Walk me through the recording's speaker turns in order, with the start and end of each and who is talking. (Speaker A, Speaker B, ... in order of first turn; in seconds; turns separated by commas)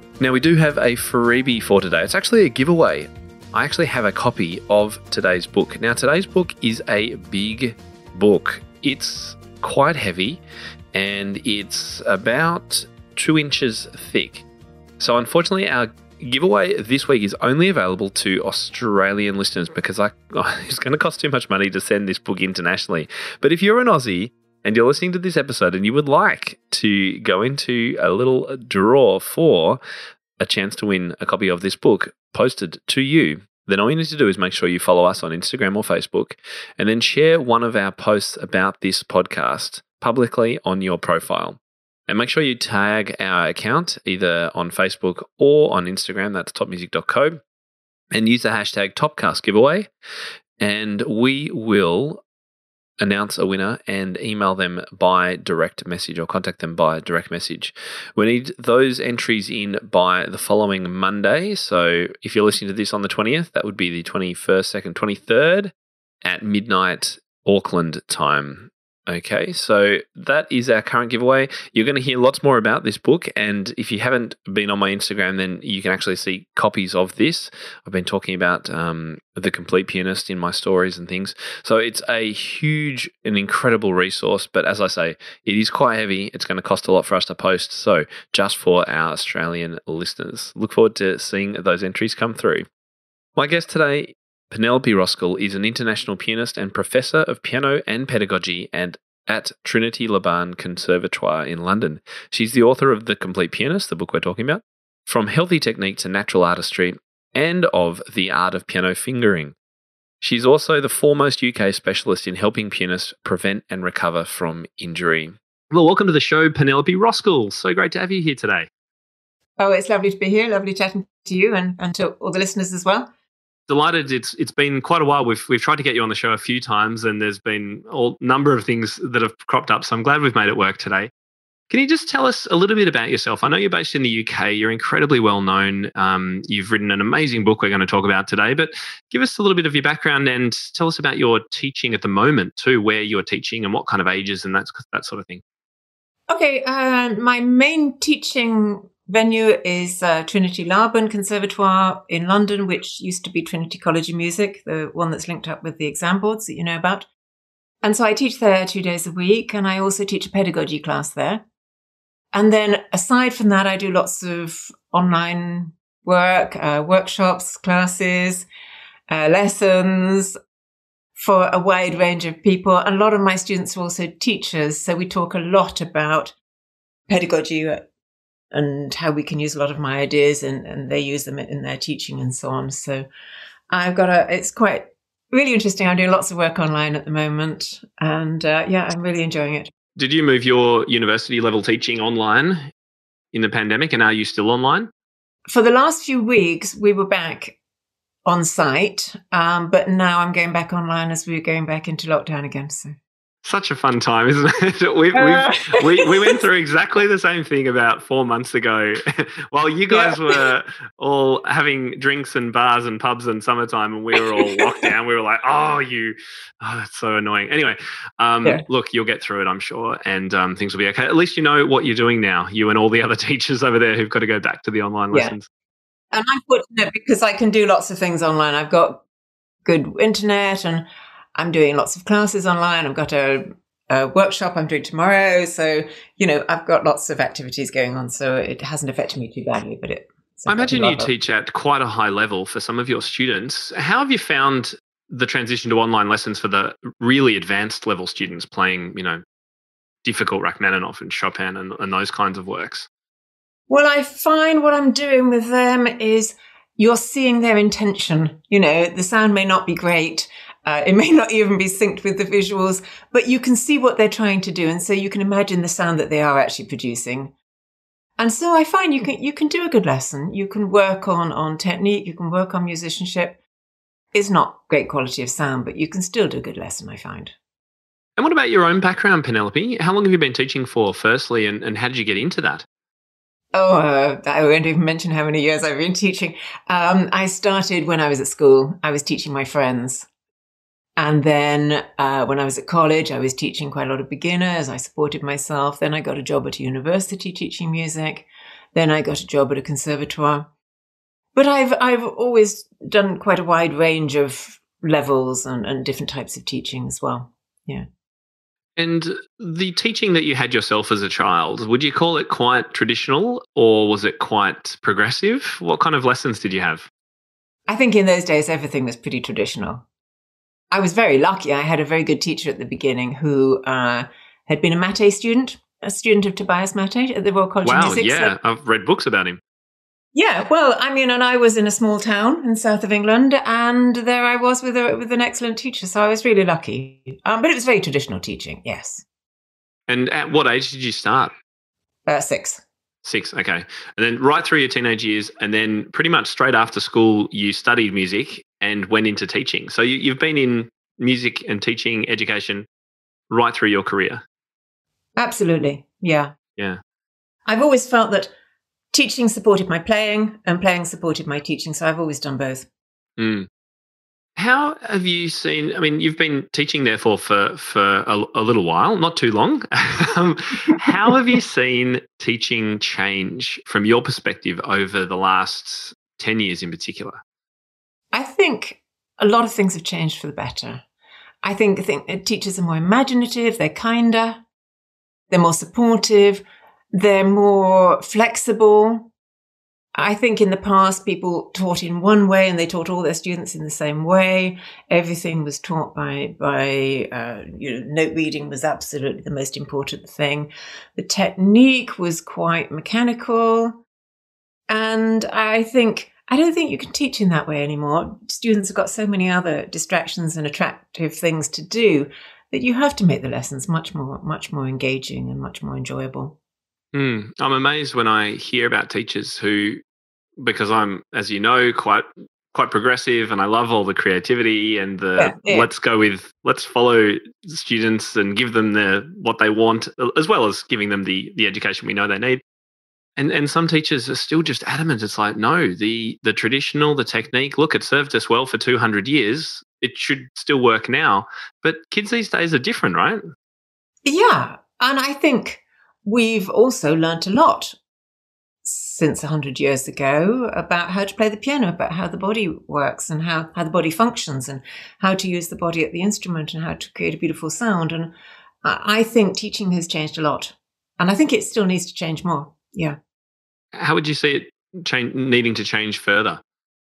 Speaker A: 0.2-10.4, Speaker A: 10.9-14.5, Speaker A: 15.0-29.8, Speaker A: 30.4-47.4, Speaker A: 48.1-49.9, Speaker A: 50.6-52.2, Speaker A: 53.0-65.7, Speaker A: 66.2-92.7, Speaker A: 93.4-109.6, Speaker A: 110.2-115.4, Speaker B: 115.7-118.7, Speaker C: 119.6-123.1, Speaker B: 123.7-131.1, Speaker B: 131.7-145.4, Speaker C: 146.3-157.1, Speaker C: 157.8-161.4, Speaker C: 162.3-168.5, Speaker C: 169.1-170.4, Speaker C: 171.2-176.3, Speaker C: 177.1-177.8, Speaker C: 178.5-183.1, Speaker C: 183.7-189.7, Speaker B: 190.0-192.7, Speaker B: 193.3-194.9, Speaker C: 195.5-197.6, Speaker C: 198.2-203.0, Speaker B: 203.4-225.5, Speaker C: 205.2-206.4, Speaker C: 209.9-210.5, Speaker C: 214.2-214.9, Speaker C: 226.1-229.0, Speaker C: 229.7-230.8, Speaker C: 231.4-241.1, Speaker B: 240.5-249.2, Speaker B: 250.0-252.9, Speaker C: 253.7-267.3, Speaker C: 268.2-273.4, Speaker C: 274.1-277.4, Speaker B: 278.2-282.6, Speaker C: 283.5-290.1, Speaker C: 291.0-300.5, Speaker C: 301.3-307.9, Speaker B: 308.8-316.9, Speaker C: 317.7-319.9, Speaker C: 320.7-328.4, Speaker B: 327.6-329.4, Speaker C: 330.1-339.1, Speaker B: 339.9-341.3, Speaker C: 342.1-342.6, Speaker B: 343.1-352.7, Speaker B: 353.3-354.2, Speaker C: 355.2-356.3, Speaker C: 357.5-358.3, Speaker C: 358.9-362.7, Speaker B: 363.2-363.5, Speaker B: 364.4-377.2, Speaker C: 370.9-371.1, Speaker C: 378.1-380.8, Speaker C: 381.4-384.4, Speaker C: 385.3-389.1, Speaker C: 389.9-403.8, Speaker C: 404.7-416.4, Speaker B: 416.9-419.8, Speaker B: 420.4-432.4, Speaker C: 425.2-425.7, Speaker B: 433.2-443.2, Speaker C: 444.1-447.8, Speaker C: 448.6-458.1, Speaker C: 458.6-463.0, Speaker B: 463.7-466.4